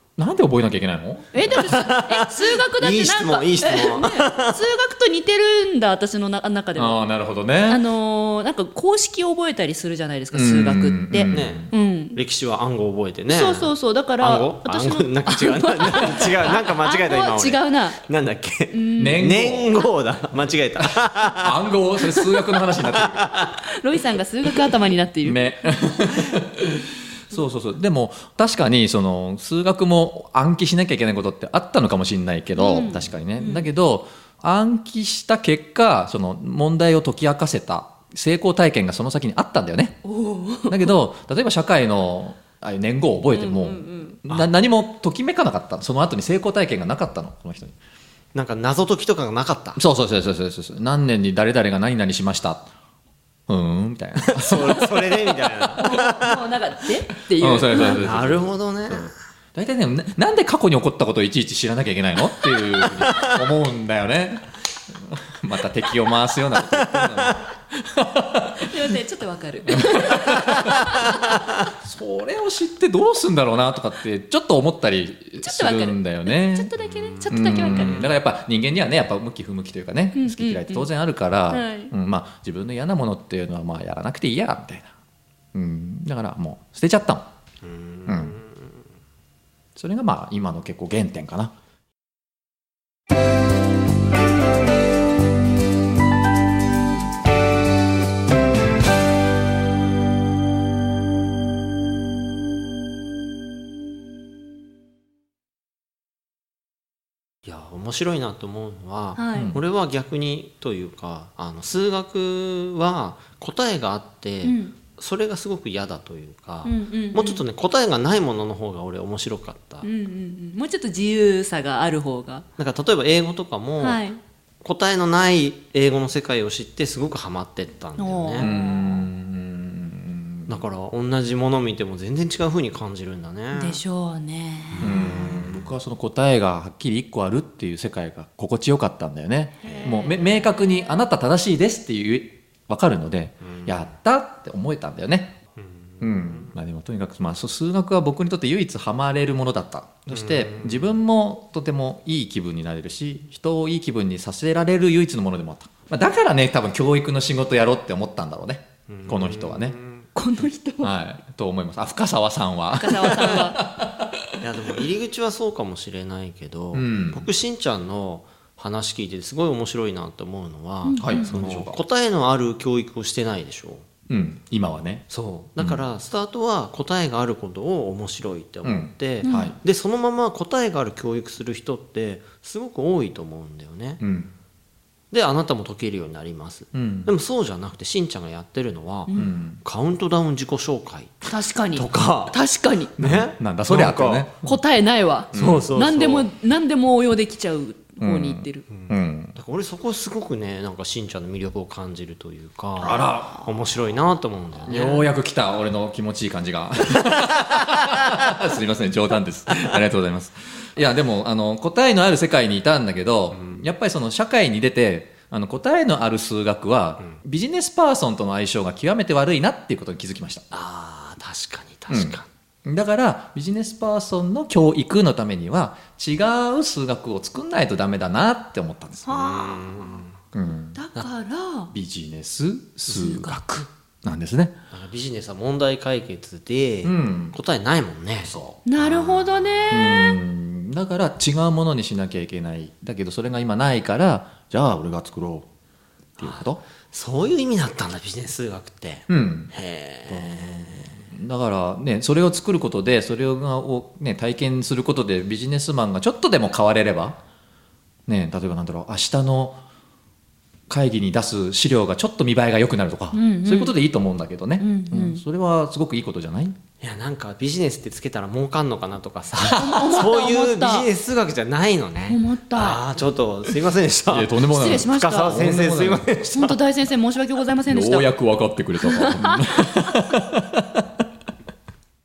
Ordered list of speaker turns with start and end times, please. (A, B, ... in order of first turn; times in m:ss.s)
0:00.2-0:01.5 A
0:01.3-0:07.0 B
0:01.5-0:04.6 C
0:06.7-0:07.9 A
0:07.6-0:12.2 B
0:10.3-0:11.7 A
0:11.3-0:21.6 C
0:13.3-0:18.0 B
0:18.7-0:19.3 B
0:19.0-0:19.8 A
0:21.4-0:23.2 A
0:22.1-0:22.6 B
0:22.8-0:23.5 C
0:23.3-0:25.6 B
0:25.2-0:40.0 A
0:32.6-0:33.7 B
0:40.0-0:40.9 B
0:40.6-0:47.8 A
0:43.3-0:44.2 B
0:48.3-0:49.8 C
0:49.8-0:52.7 A
0:53.5-0:55.1 A
0:54.2-0:56.4 C
0:55.8-0:58.0 B
0:57.4-1:08.7 A
0:57.9-0:59.1 C
1:02.7-1:03.3 C
1:08.6-1:11.6 B
1:09.7-1:10.9 A
1:11.7-1:16.7 A
1:15.4-1:18.1 B
1:16.9-1:18.1 C
1:17.3-1:24.9 A
1:20.1-1:20.9 B
1:21.5-1:21.9 B
1:25.5-1:27.3 A
1:27.6-1:28.7 C
1:28.1-1:28.4 A
1:29.8-1:31.5 A
1:47.4-1:59.9 C
1:49.2-1:49.5 B
1:54.4-1:54.8 B
1:56.6-1:57.4 B
1:59.8-2:02.4 B
2:02.6-2:04.0 C
2:03.8-2:04.2 B
2:04.6-2:08.5 C
2:08.0-2:08.8 B
2:08.4-2:10.6 A
2:10.5-2:13.8 C
2:13.5-2:14.9 B
2:14.7-2:15.6 C
2:14.8-2:25.4 A
2:19.6-2:20.1 C
2:19.6-2:20.8 B
2:23.5-2:23.8 C
2:25.9-2:26.5 C
2:26.0-2:39.8 A
2:30.1-2:30.9 C
2:39.0-2:40.0 C
2:40.1-2:40.9 B
2:40.8-2:44.7 A
2:42.7-2:43.6 B
2:44.4-2:53.8 C
2:46.7-2:47.2 A
2:50.8-2:51.2 B
2:51.0-2:51.8 A
2:54.1-2:55.8 A
2:55.1-3:04.0 C
2:58.6-2:59.6 A
2:59.2-2:59.6 B
3:04.0-3:04.3 A
3:05.1-3:12.4 C
3:06.7-3:07.1 A
3:09.2-3:09.6 A
3:11.3-3:12.9 B
3:13.0-3:14.3 C
3:13.0-3:14.6 A
3:14.4-3:18.6 B
3:15.3-3:15.7 A
3:15.3-3:16.3 C
3:18.0-3:19.3 A
3:18.7-3:25.1 C
3:22.8-3:23.5 A
3:24.6-3:40.4 A
3:33.3-3:33.6 C
3:40.5-3:42.3 C
3:41.9-3:49.1 A
3:49.0-3:49.6 B
3:49.1-3:50.1 C
3:50.3-3:50.8 A
3:50.7-3:51.7 B
3:51.7-3:53.4 A
3:52.9-3:53.5 B
3:54.0-3:54.5 A
3:54.7-3:59.7 C
3:56.8-3:57.4 A
3:58.2-3:58.6 A
3:58.6-4:00.2 B
3:59.7-4:05.4 A
4:06.2-4:06.6 A
4:06.2-4:11.0 C
4:09.1-4:09.5 A
4:10.1-4:17.2 A
4:18.1-4:19.6 A
4:20.7-4:26.6 A
4:23.1-4:23.8 B
4:24.6-4:25.2 B
4:26.8-4:36.6 C
4:29.5-4:30.9 B
4:32.1-4:32.8 B
4:34.1-4:36.3 A
4:34.5-4:35.4 B
4:36.3-4:38.1 B
4:37.7-4:40.8 A
4:38.8-4:39.8 B